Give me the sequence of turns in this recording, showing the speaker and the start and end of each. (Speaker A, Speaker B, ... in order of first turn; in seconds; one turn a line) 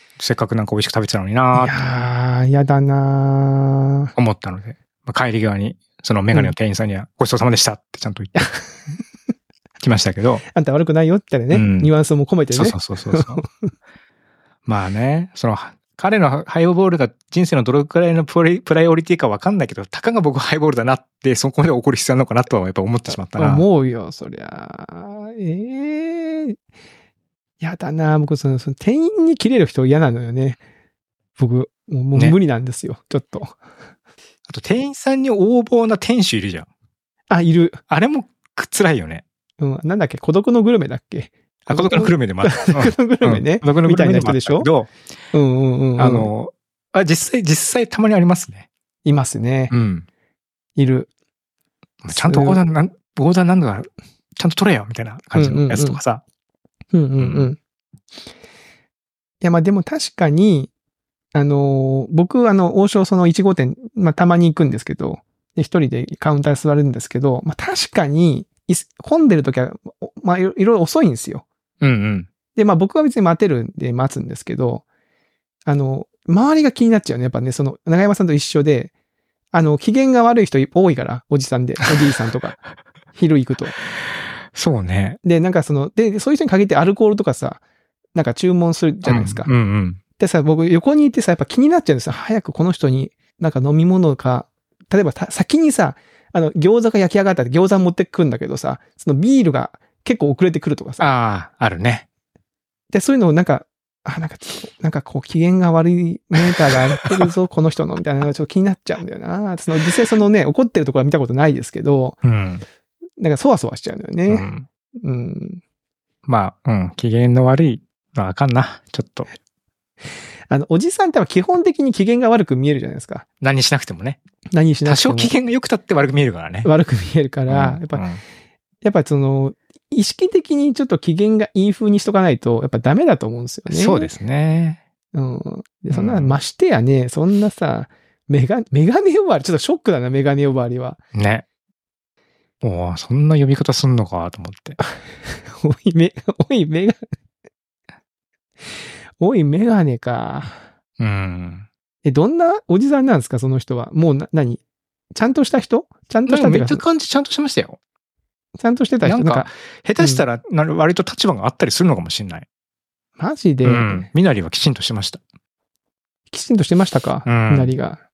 Speaker A: 0.2-1.8
Speaker B: 1.5-4.1
Speaker A: 4.2-8.4
Speaker B: 8.3-8.6
Speaker A: 9.8-10.4
Speaker B: 10.5-13.5
Speaker A: 11.5-11.9
Speaker A: 12.5-13.4
Speaker A: 14.7-23.7
Speaker B: 23.3-26.6
Speaker B: 27.6-30.6
Speaker B: 31.4-33.6
Speaker A: 34.5-36.7
Speaker B: 37.3-37.8
Speaker A: 37.9-39.2
Speaker B: 39.6-44.7
Speaker A: 41.7-44.9
Speaker B: 45.3-46.3
Speaker A: 46.0-48.7
Speaker B: 49.0-49.7
Speaker A: 49.7-50.1
Speaker B: 50.8-51.1
Speaker A: 52.0-56.2
Speaker B: 52.1-52.6
Speaker B: 55.4-56.0
Speaker B: 56.9-57.6
Speaker A: 57.2-57.5
Speaker B: 59.4-60.7
Speaker B: 61.3-71.5
Speaker A: 71.8-72.3
Speaker B: 72.6-74.8
Speaker B: 75.7-78.9
Speaker B: 79.5-82.6
Speaker B: 83.2-83.7
Speaker A: 84.5-85.2
Speaker B: 85.2-87.6
Speaker B: 88.2-89.5
Speaker A: 89.0-90.0
Speaker B: 90.2-101.0
Speaker A: 101.0-102.0
Speaker B: 102.9-112.2
Speaker A: 112.2-112.6
Speaker B: 113.2-115.6
Speaker A: 114.3-114.7
Speaker A: 116.3-119.3
Speaker B: 120.5-123.2
Speaker A: 123.4-124.2
Speaker B: 124.5-125.3
Speaker A: 124.8-126.7
Speaker B: 126.6-128.0
Speaker A: 127.5-128.2
Speaker B: 128.8-134.1
Speaker A: 133.7-134.8
Speaker B: 135.1-141.0
Speaker A: 135.9-136.4
Speaker A: 141.1-141.4
Speaker A: 142.6-144.8
Speaker B: 144.8-147.0
Speaker B: 149.2-150.6
Speaker A: 151.0-151.7
Speaker B: 152.0-154.6
Speaker B: 155.1-156.8
Speaker A: 156.3-157.8
Speaker B: 158.6-160.2
Speaker A: 159.0-162.5
Speaker B: 163.2-164.1
Speaker A: 163.6-165.2
Speaker B: 166.3-168.0
Speaker A: 167.2-167.7